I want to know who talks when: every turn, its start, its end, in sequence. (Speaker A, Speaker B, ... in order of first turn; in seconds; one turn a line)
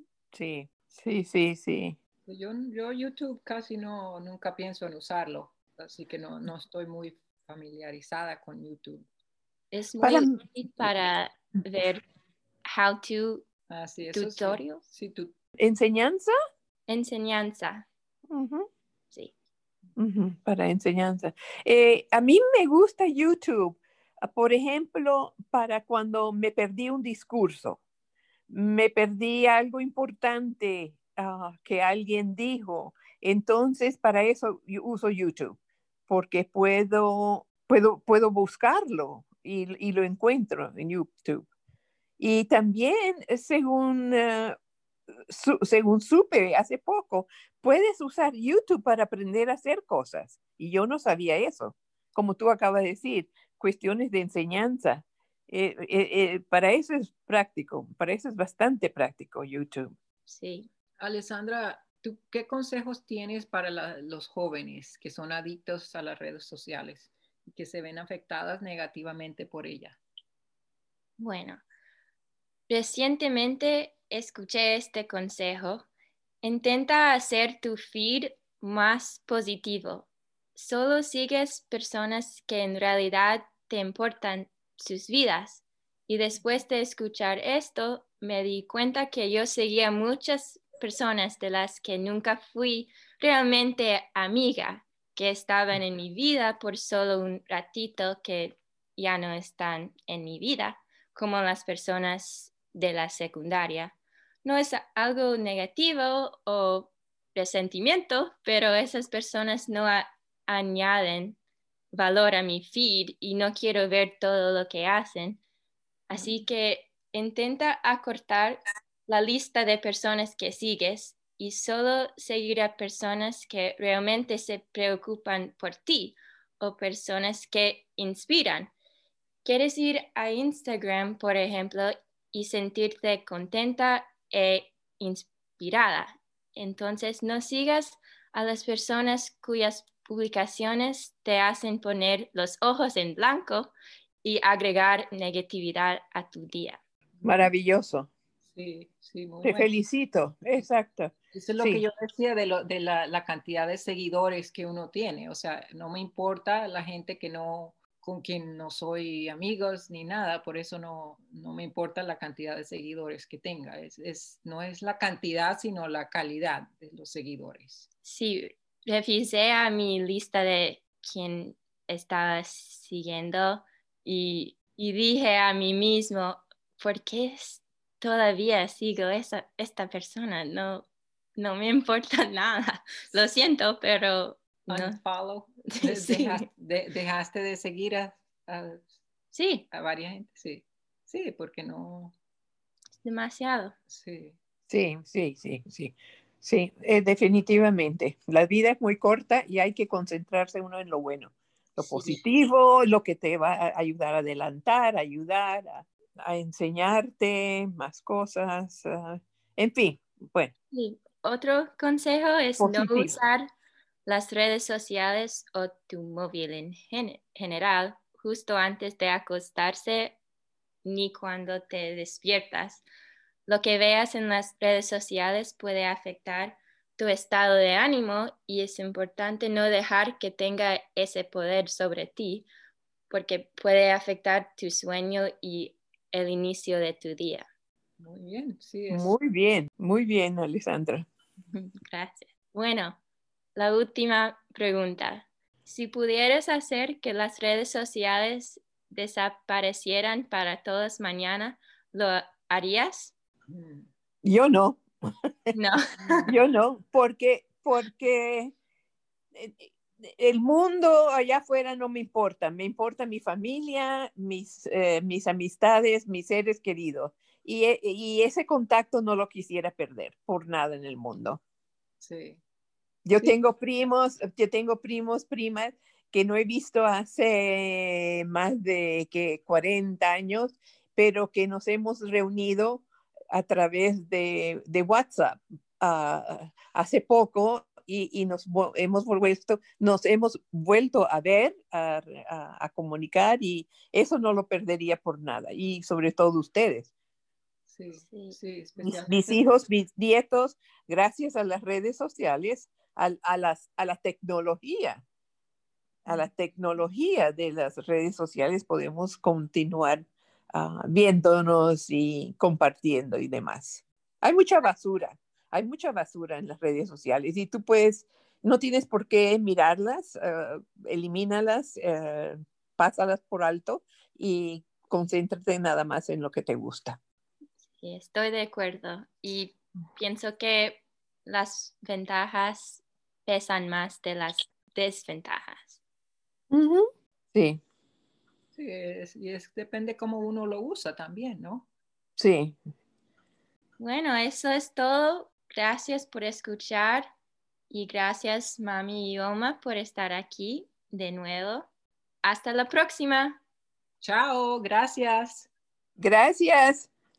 Speaker A: 0.3-2.0
Speaker B: 2.2-9.1
Speaker C: 9.7-12.0
Speaker A: 10.0-10.9
Speaker C: 12.6-13.4
Speaker B: 13.7-15.3
Speaker C: 14.1-14.8
Speaker A: 15.6-16.3
Speaker C: 16.9-17.9
Speaker A: 18.3-18.6
Speaker A: 20.0-27.8
Speaker A: 28.5-35.6
Speaker A: 36.1-41.5
Speaker A: 42.2-44.5
Speaker A: 45.3-59.9
Speaker C: 60.3-60.7
Speaker B: 61.0-70.0
Speaker C: 71.2-71.6
Speaker C: 72.7-75.9
Speaker C: 76.4-111.4
Speaker C: 111.9-115.4
Speaker C: 116.1-128.7
Speaker C: 129.4-143.7
Speaker C: 144.2-146.8
Speaker B: 147.2-147.5
Speaker A: 147.2-148.1
Speaker B: 148.4-149.7
Speaker A: 149.4-151.8
Speaker B: 151.3-167.9
Speaker C: 168.0-184.9
Speaker B: 184.7-188.9
Speaker C: 185.7-186.4
Speaker C: 189.3-189.6
Speaker B: 189.7-192.1
Speaker C: 193.0-193.7
Speaker B: 193.9-194.4
Speaker A: 194.7-210.5
Speaker C: 201.8-202.2
Speaker C: 210.7-213.4
Speaker A: 212.6-213.1
Speaker C: 214.1-220.2
Speaker C: 220.8-222.8
Speaker C: 223.4-232.5
Speaker C: 233.1-237.5
Speaker B: 238.0-239.1
Speaker A: 238.9-241.1
Speaker C: 241.5-243.0
Speaker C: 243.6-253.1
Speaker B: 253.5-253.9
Speaker A: 254.2-254.8
Speaker C: 255.5-256.3
Speaker B: 256.0-256.4
Speaker A: 256.3-258.6
Speaker A: 259.3-271.4
Speaker B: 272.0-272.4
Speaker A: 273.1-296.9
Speaker B: 297.7-299.4
Speaker C: 297.9-298.4
Speaker A: 298.8-305.0
Speaker A: 306.1-327.0
Speaker C: 327.8-335.8
Speaker A: 336.5-337.6
Speaker B: 338.5-341.7
Speaker A: 342.2-342.6
Speaker C: 343.8-347.1
Speaker C: 347.7-351.7
Speaker C: 352.2-353.4
Speaker B: 354.0-355.5
Speaker A: 356.0-356.9